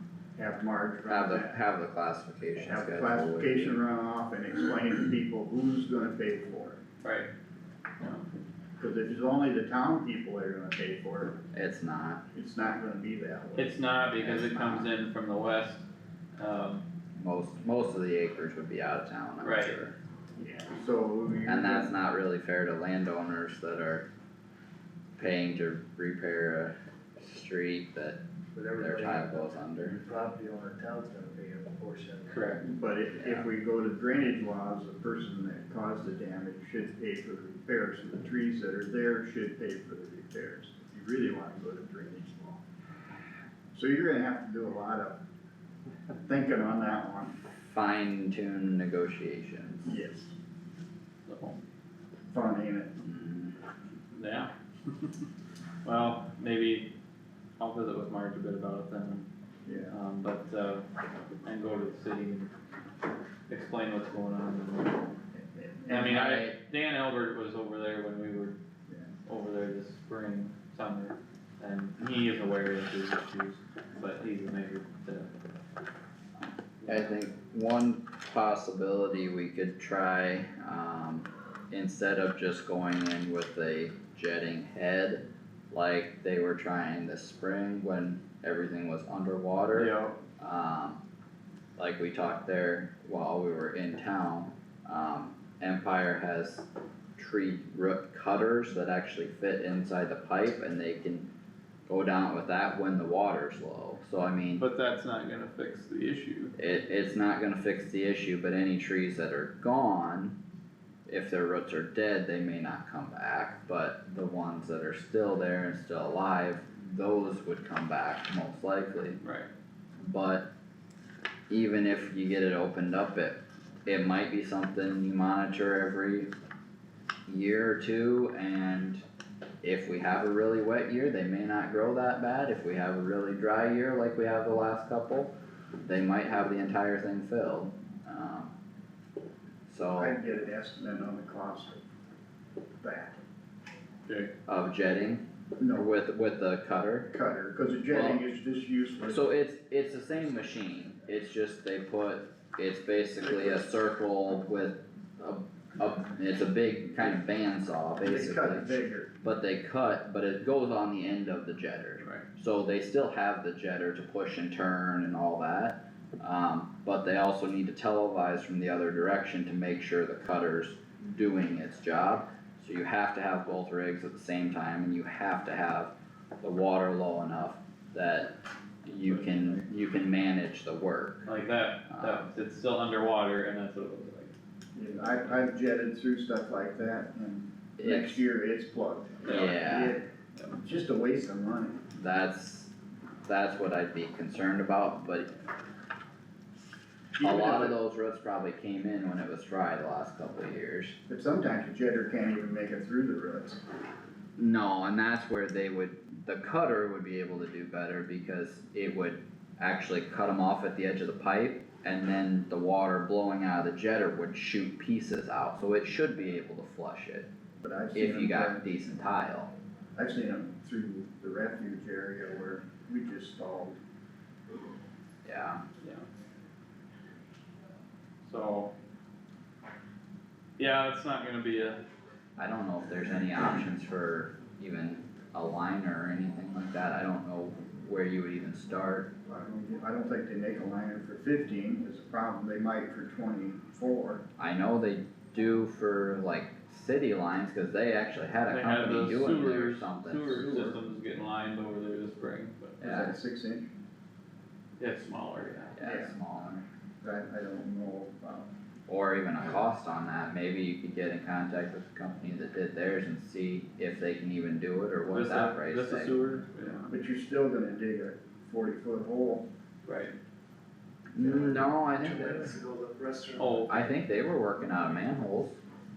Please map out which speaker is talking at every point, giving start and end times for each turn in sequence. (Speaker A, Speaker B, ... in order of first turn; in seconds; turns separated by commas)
Speaker A: 0.3-1.6, Speaker B: 1.1-3.8, Speaker A: 2.6-6.8, Speaker C: 7.0-7.3, Speaker C: 8.0-8.3, Speaker A: 8.8-11.4, Speaker B: 11.5-12.2, Speaker A: 12.3-14.9, Speaker C: 13.6-15.8, Speaker B: 14.2-14.8, Speaker C: 16.4-16.8, Speaker B: 17.2-19.9, Speaker C: 19.4-19.8, Speaker A: 20.4-21.9, Speaker B: 21.5-24.1, Speaker B: 25.2-28.2, Speaker D: 28.6-29.3, Speaker B: 28.8-30.0, Speaker D: 30.0-32.4, Speaker C: 32.3-32.6, Speaker A: 32.6-42.6, Speaker A: 43.7-45.2, Speaker A: 46.2-47.4, Speaker B: 47.7-49.9, Speaker A: 49.9-50.3, Speaker C: 51.3-51.6, Speaker A: 52.3-53.0, Speaker B: 53.0-53.5, Speaker C: 54.2-54.5, Speaker C: 55.8-56.9, Speaker C: 57.6-59.2, Speaker A: 59.6-60.0, Speaker C: 59.9-60.9, Speaker C: 61.4-62.5, Speaker C: 63.5-65.1, Speaker A: 65.5-66.2, Speaker C: 65.9-68.6, Speaker B: 65.9-66.6, Speaker C: 69.3-75.3, Speaker C: 76.8-77.2, Speaker B: 76.9-91.0, Speaker C: 89.7-90.2, Speaker B: 91.8-96.7, Speaker B: 97.2-101.3, Speaker B: 101.9-104.6, Speaker C: 104.6-106.5, Speaker B: 106.6-110.4, Speaker B: 111.1-119.2, Speaker C: 119.2-119.5, Speaker B: 120.0-120.5, Speaker B: 121.5-126.3, Speaker B: 127.3-129.1, Speaker B: 129.6-138.5, Speaker B: 139.7-140.2, Speaker A: 140.0-141.8, Speaker A: 142.8-143.2, Speaker C: 144.1-144.3, Speaker B: 144.5-147.1, Speaker A: 145.6-145.9, Speaker A: 147.1-149.2, Speaker B: 147.9-148.2, Speaker B: 149.1-158.7, Speaker A: 153.2-153.6, Speaker A: 158.0-159.1, Speaker B: 159.2-181.3, Speaker C: 179.1-179.6, Speaker C: 181.3-184.3, Speaker B: 181.9-182.3, Speaker A: 184.8-191.8, Speaker B: 187.8-188.2, Speaker C: 189.2-189.6, Speaker B: 189.3-190.0, Speaker B: 191.9-192.7, Speaker B: 193.3-195.3, Speaker A: 197.2-197.8, Speaker B: 197.2-201.0, Speaker A: 201.1-203.6, Speaker B: 204.4-217.3, Speaker A: 217.6-218.6, Speaker B: 217.9-219.5, Speaker A: 220.0-223.8, Speaker B: 225.2-225.6, Speaker C: 225.8-226.1, Speaker C: 228.2-228.7, Speaker C: 230.6-231.8, Speaker B: 232.4-239.1, Speaker A: 239.3-244.2, Speaker B: 244.4-250.6, Speaker C: 248.5-252.8, Speaker A: 250.4-250.8, Speaker B: 252.8-253.2, Speaker A: 252.8-253.7, Speaker C: 254.8-255.7, Speaker B: 255.7-256.6, Speaker A: 255.8-256.2, Speaker A: 257.0-258.5, Speaker B: 258.9-266.1, Speaker C: 265.1-266.9, Speaker A: 266.9-269.5, Speaker C: 269.9-270.1, Speaker B: 271.1-272.6, Speaker D: 271.2-273.7, Speaker C: 273.4-273.7, Speaker B: 273.7-275.6